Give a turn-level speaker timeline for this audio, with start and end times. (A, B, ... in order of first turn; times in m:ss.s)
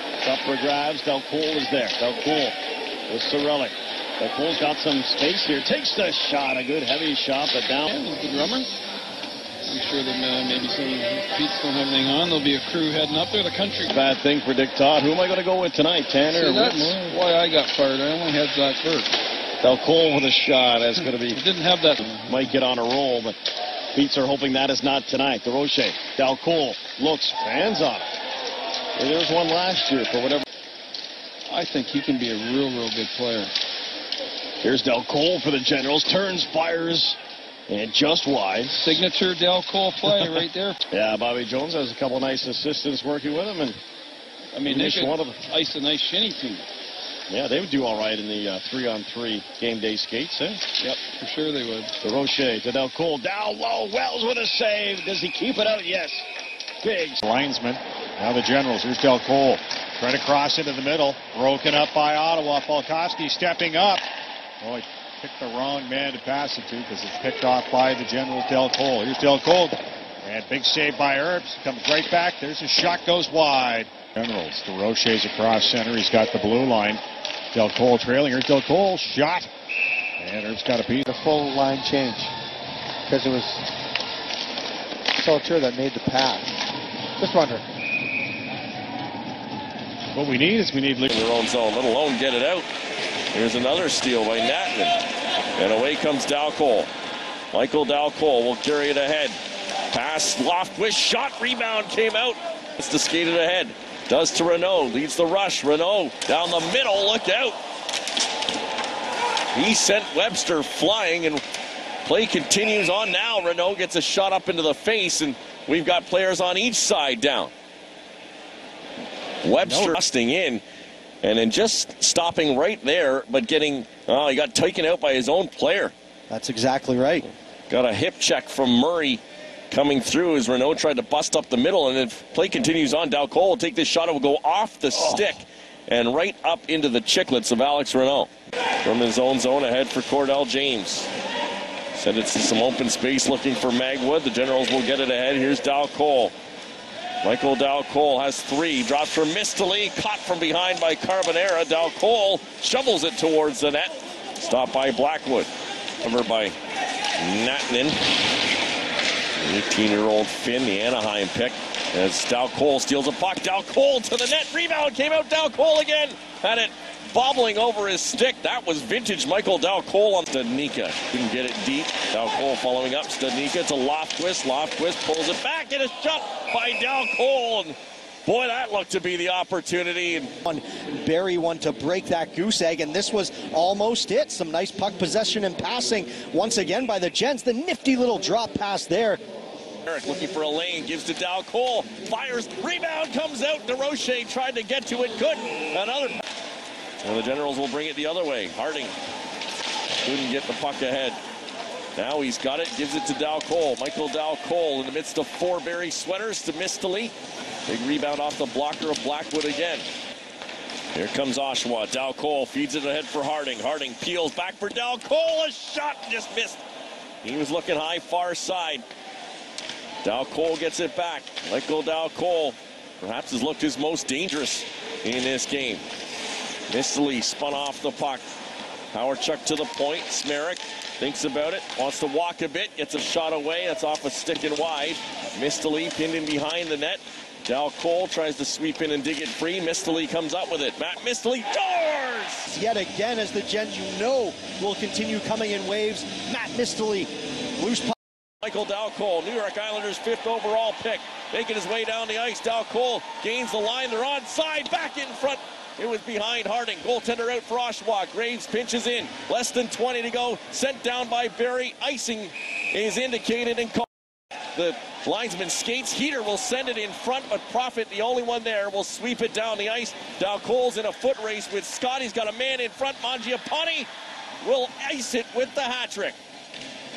0:00.2-0:02.6 A
0:03.1-0:08.0 A
0:07.9-0:08.8 B
0:09.6-0:13.9 B
0:13.9-0:17.1 A
0:16.3-0:19.2 B
0:19.6-0:21.4 A
0:21.3-0:22.2 B
0:22.0-0:23.3 A
0:23.9-0:28.2 A
0:28.9-0:30.4 A
0:31.5-0:33.5 B
0:34.6-0:37.2 A
0:37.7-0:39.0 A
0:38.8-0:40.8 B
0:40.0-0:43.8 A
0:44.5-0:46.6 B
0:44.6-0:45.4 A
0:47.3-0:50.9 A
0:50.9-0:51.9 B
0:52.0-0:56.3 A
0:56.8-0:57.2 A
0:57.2-1:04.0 C
1:04.6-1:17.0 C
1:17.5-1:19.5 C
1:20.2-1:21.0 C
1:21.1-1:22.3 D
1:23.1-1:23.6 D
1:25.2-1:26.5 D
1:27.2-1:27.6 D
1:30.1-1:31.1 C
1:31.1-1:32.7 E
1:33.3-1:35.0 E
1:35.6-1:36.9 E
1:37.5-1:39.3 E
1:39.9-1:47.6 E
1:49.5-1:51.4 E
1:52.0-1:57.5 E
1:59.4-2:00.6 E
1:59.6-2:00.0 F
2:01.2-2:05.9 E
2:06.3-2:07.2 F
2:07.7-2:18.3 E
2:18.8-2:21.1 E
2:21.9-2:26.3 E
2:27.2-2:35.5 E
2:36.0-2:36.5 E
2:37.2-2:38.0 E
2:39.4-3:00.3 E
3:00.4-3:09.2 F
3:09.8-3:16.2 E
3:17.0-3:18.9 E
3:20.0-3:21.2 E
3:22.0-3:27.1 E
3:27.6-3:29.8 E
3:30.9-3:36.6 E
3:37.2-3:38.8 E
3:40.0-3:45.8 E
3:46.7-3:48.2 E
3:48.9-4:02.5 E
4:02.5-4:07.9 F
4:08.4-4:23.8 E
4:24.5-4:33.9 E
4:34.4-4:36.2 E